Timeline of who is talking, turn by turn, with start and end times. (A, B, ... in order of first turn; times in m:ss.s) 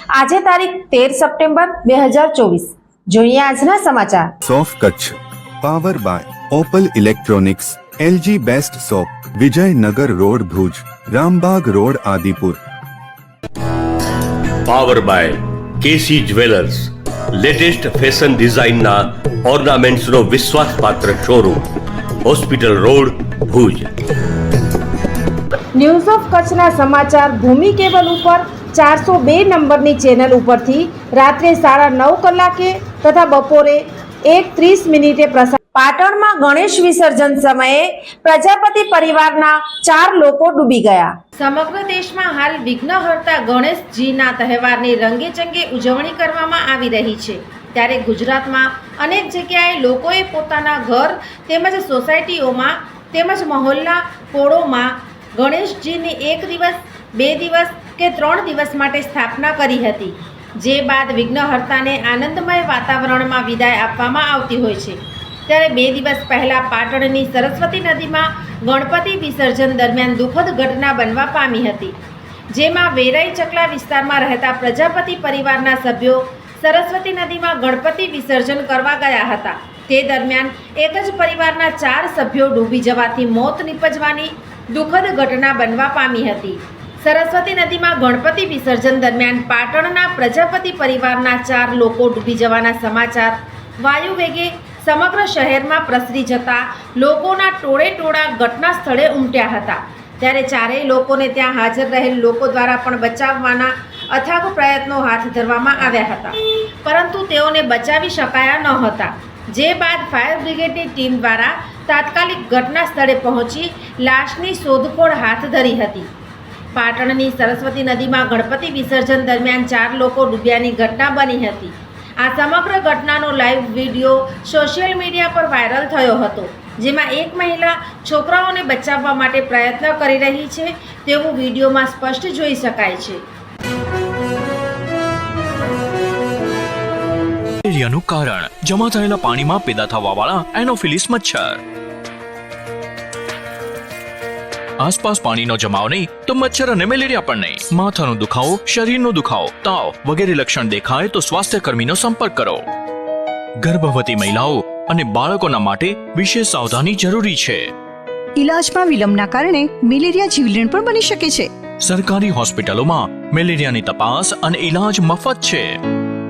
0:00.1-0:04.3 A
0:04.4-0:12.6 B
0:14.7-0:21.7 C
0:22.2-0:23.9 C
0:25.8-1:12.0 A
1:12.5-1:56.1 A
1:56.7-2:13.2 A
2:17.6-2:21.6 D
2:24.8-2:32.6 D
2:33.6-2:37.7 D
2:38.4-2:41.5 E
2:41.8-2:45.8 D